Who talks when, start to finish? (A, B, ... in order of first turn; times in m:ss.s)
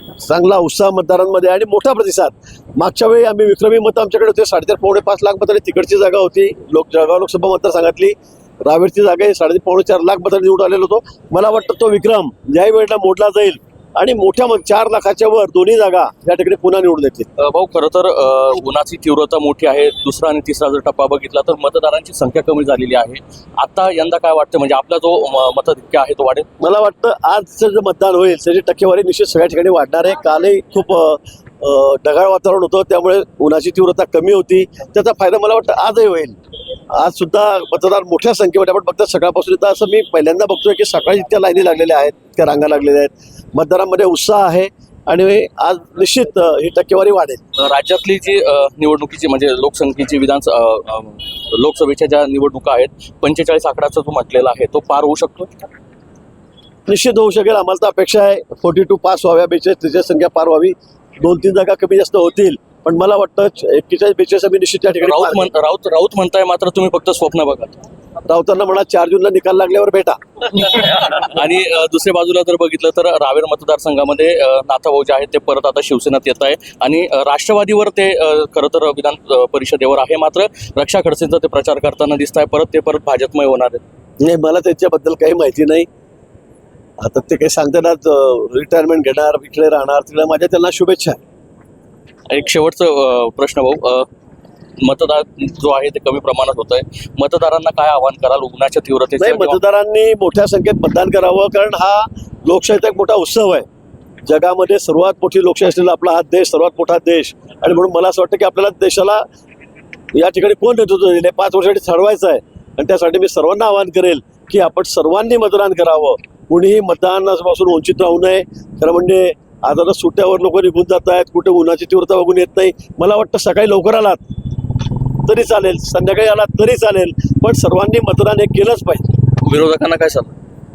0:00.2-0:17.3 A
0:17.4-0:26.5 B
0:26.6-0:36.4 A
0:36.9-0:47.4 A
0:47.6-0:55.5 B
0:56.9-1:05.5 A
1:05.0-1:07.8 B
1:08.3-1:10.2 A
1:10.5-1:23.8 B
1:24.2-1:25.9 A
1:27.0-1:31.2 A
1:32.3-1:34.1 B
1:34.8-1:39.6 B
1:39.2-1:43.7 A
1:44.3-1:49.2 A
1:50.1-2:04.2 A
2:05.3-2:09.1 A
2:09.3-2:10.3 B